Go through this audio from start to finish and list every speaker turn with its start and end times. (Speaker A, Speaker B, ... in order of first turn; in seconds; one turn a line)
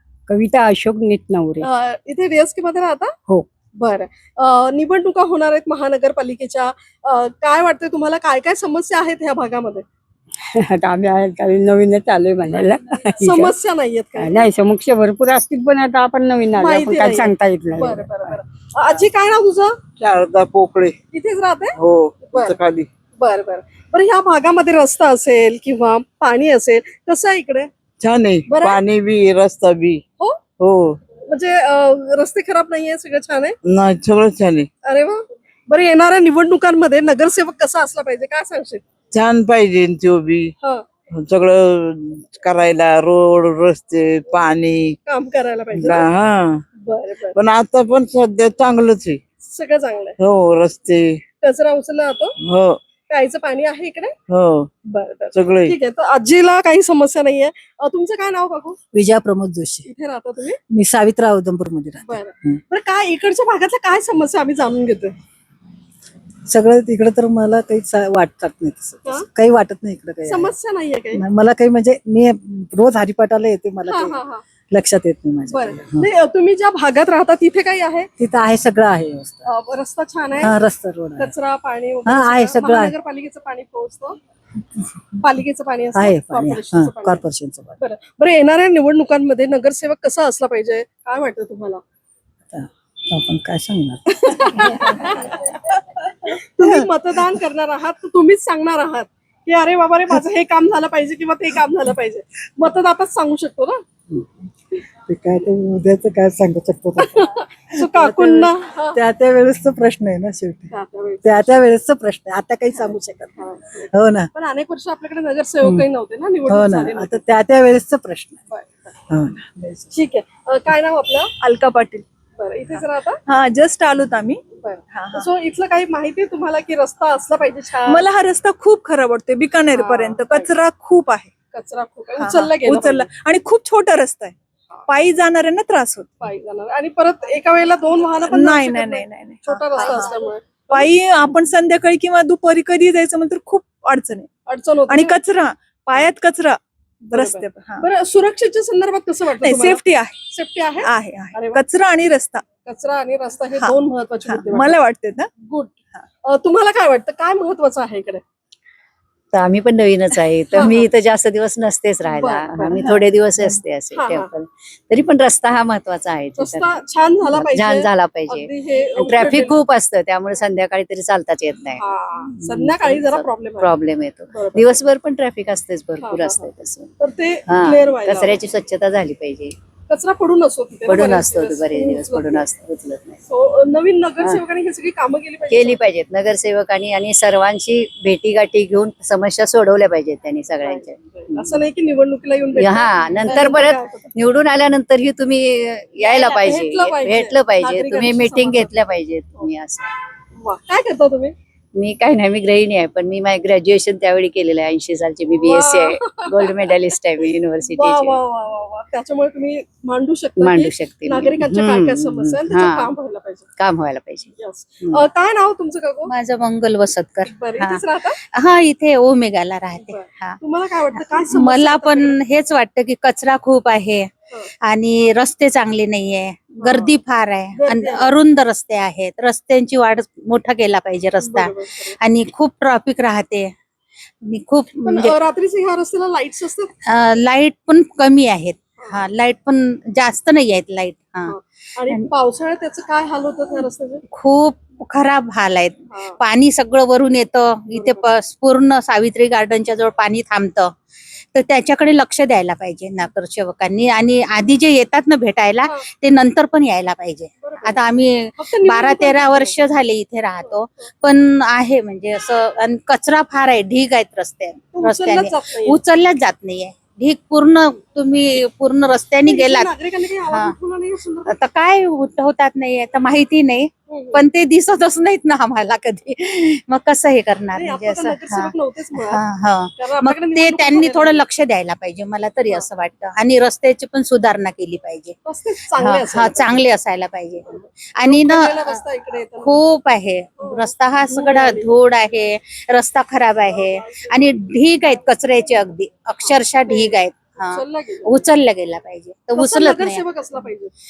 Speaker A: 0.3-1.7
Speaker B: 1.6-3.1
Speaker B: 3.8-9.8
Speaker A: 10.5-13.6
Speaker B: 13.2-14.4
Speaker A: 14.2-18.4
Speaker B: 16.6-19.8
Speaker C: 20.0-20.9
Speaker B: 21.1-21.8
Speaker C: 21.8-22.9
Speaker B: 22.3-22.6
Speaker B: 23.2-27.7
Speaker C: 28.0-30.0
Speaker B: 28.5-28.8
Speaker C: 30.6-31.0
Speaker B: 31.2-33.5
Speaker C: 33.6-34.7
Speaker B: 34.8-38.8
Speaker C: 39.1-40.5
Speaker B: 40.6-40.9
Speaker C: 41.1-45.0
Speaker B: 45.0-46.1
Speaker C: 45.7-46.6
Speaker B: 46.8-47.4
Speaker C: 47.3-49.2
Speaker B: 49.4-50.1
Speaker C: 50.2-51.2
Speaker B: 51.4-52.3
Speaker C: 52.4-52.8
Speaker B: 53.1-54.1
Speaker C: 54.3-54.7
Speaker B: 54.9-58.8
Speaker C: 55.3-55.8
Speaker D: 59.0-59.6
Speaker B: 59.8-60.6
Speaker D: 60.8-61.8
Speaker B: 62.0-65.1
Speaker D: 66.5-70.3
Speaker B: 70.2-71.2
Speaker D: 71.4-74.0
Speaker B: 73.9-74.4
Speaker D: 74.7-75.7
Speaker B: 75.5-78.1
Speaker D: 78.2-79.3
Speaker B: 79.4-80.6
Speaker D: 80.4-81.0
Speaker B: 81.2-84.2
Speaker D: 82.4-82.7
Speaker B: 85.2-87.2
Speaker D: 87.2-87.6
Speaker B: 87.8-91.8
Speaker D: 93.2-93.9
Speaker B: 94.1-95.4
Speaker B: 96.4-103.8
Speaker D: 105.1-106.9
Speaker B: 107.0-109.0
Speaker D: 109.0-110.6
Speaker B: 110.7-111.6
Speaker D: 111.4-113.1
Speaker B: 112.7-117.2
Speaker D: 117.2-118.3
Speaker B: 118.5-118.9
Speaker D: 119.1-119.8
Speaker B: 119.9-121.3
Speaker E: 121.4-122.0
Speaker B: 122.4-123.2
Speaker E: 122.7-125.3
Speaker B: 124.6-128.0
Speaker E: 127.8-131.3
Speaker B: 129.7-130.5
Speaker B: 131.5-133.1
Speaker E: 132.2-134.3
Speaker E: 134.9-136.1
Speaker B: 136.2-140.9
Speaker E: 138.2-140.2
Speaker E: 140.7-144.3
Speaker B: 144.5-145.2
Speaker E: 144.9-147.9
Speaker B: 147.1-151.6
Speaker E: 149.4-150.2
Speaker E: 150.8-152.4
Speaker B: 152.7-154.8
Speaker E: 153.6-155.3
Speaker B: 155.5-155.7
Speaker B: 156.2-158.2
Speaker F: 159.3-166.7
Speaker B: 160.5-160.9
Speaker B: 162.0-162.8
Speaker B: 163.9-164.3
Speaker B: 166.3-169.6
Speaker F: 167.4-168.5
Speaker F: 169.0-171.8
Speaker B: 171.8-174.8
Speaker F: 172.4-176.9
Speaker B: 176.0-178.4
Speaker F: 177.5-179.5
Speaker B: 179.9-182.5
Speaker F: 180.9-183.2
Speaker B: 183.3-185.9
Speaker F: 185.5-191.3
Speaker B: 190.6-194.1
Speaker F: 192.6-199.8
Speaker B: 196.0-199.5
Speaker B: 200.4-201.3
Speaker F: 201.7-208.1
Speaker B: 205.3-207.0
Speaker B: 207.7-213.5
Speaker G: 210.5-210.8
Speaker F: 210.8-211.2
Speaker G: 212.4-212.9
Speaker F: 213.6-214.2
Speaker B: 214.4-216.1
Speaker G: 216.1-220.4
Speaker B: 217.2-218.2
Speaker B: 219.8-222.2
Speaker G: 221.0-224.1
Speaker G: 224.7-233.5
Speaker B: 226.6-226.9
Speaker B: 227.6-228.1
Speaker B: 231.2-231.9
Speaker G: 234.2-235.1
Speaker B: 234.8-236.7
Speaker G: 236.9-241.3
Speaker B: 241.3-244.0
Speaker G: 244.1-250.7
Speaker B: 245.9-246.2
Speaker B: 247.7-248.0
Speaker G: 251.3-270.5
Speaker B: 257.4-259.5
Speaker B: 264.7-265.8
Speaker B: 269.2-271.3
Speaker G: 271.3-285.1
Speaker B: 273.9-274.2
Speaker B: 277.5-279.2
Speaker B: 279.8-281.2
Speaker B: 285.2-286.6
Speaker G: 285.8-288.8
Speaker B: 287.5-289.6
Speaker G: 289.3-300.0
Speaker B: 290.4-291.7
Speaker B: 293.5-294.3
Speaker B: 296.2-298.2
Speaker B: 299.4-300.7